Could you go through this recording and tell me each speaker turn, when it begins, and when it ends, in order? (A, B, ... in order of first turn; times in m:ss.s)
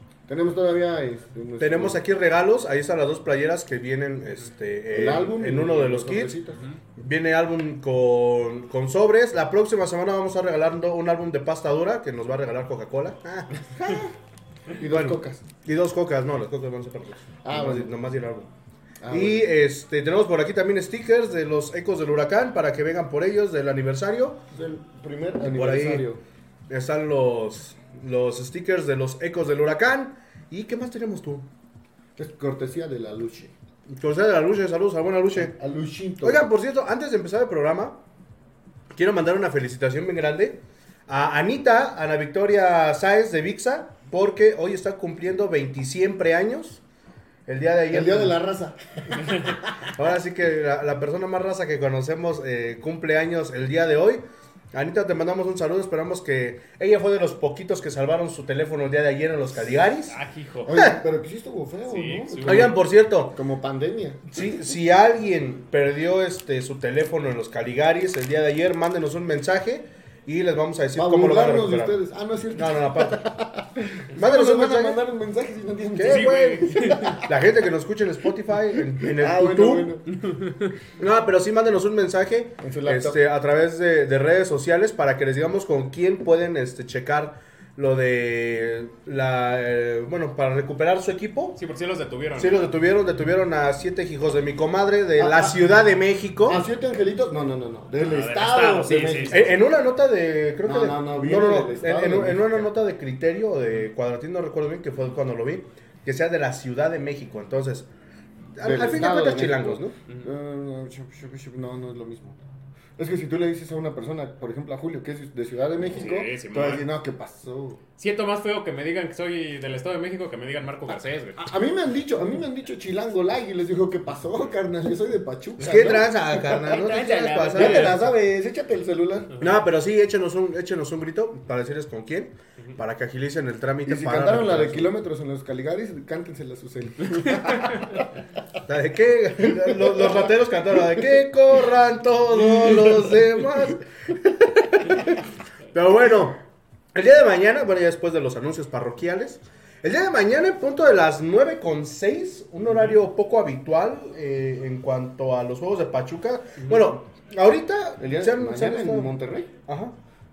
0:00.3-0:02.0 A
0:01.6-0:06.4 B
0:04.9-0:06.6 A
0:07.0-0:14.1 B
0:14.7-0:15.4 A
0:14.8-0:18.5 B
0:17.4-0:17.9 A
0:19.0-0:19.5 A
0:19.1-0:24.4 B
0:24.5-0:26.2 A
0:25.5-0:26.1 B
0:26.7-0:31.5 B
0:32.2-0:33.5 A
0:33.9-0:35.5 B
0:35.4-0:36.4 A
0:36.2-0:38.0 B
0:38.9-0:46.8 B
0:47.5-0:48.4 B
0:47.9-0:49.7 A
0:49.9-1:00.2 B
1:00.1-1:00.9 C
1:00.6-1:04.2 A
1:01.9-1:02.7 C
1:02.4-1:03.4 B
1:04.3-1:12.0 B
1:11.0-1:17.3 A
1:12.5-1:13.2 B
1:14.2-1:15.0 B
1:16.0-1:19.9 B
1:16.1-1:17.2 C
1:18.9-1:20.1 A
1:20.1-1:20.8 C
1:21.0-1:31.6 B
1:22.6-1:23.2 A
1:31.6-1:32.7 C
1:32.4-1:36.6 B
1:35.2-1:35.6 A
1:36.5-1:39.6 A
1:38.0-1:39.5 C
1:39.3-1:47.9 B
1:40.6-1:42.6 A
1:48.6-1:50.0 B
1:48.6-1:52.4 A
1:53.0-1:57.8 A
1:56.0-1:56.9 C
1:58.0-2:01.5 C
2:01.4-2:09.4 A
2:05.6-2:08.1 B
2:06.9-2:08.1 C
2:09.4-2:14.9 B
2:13.8-2:18.1 A
2:17.2-2:18.0 C
2:18.6-2:26.4 B
2:19.8-2:20.1 A
2:26.9-2:39.2 B
2:38.0-2:39.5 A
2:39.7-2:40.0 B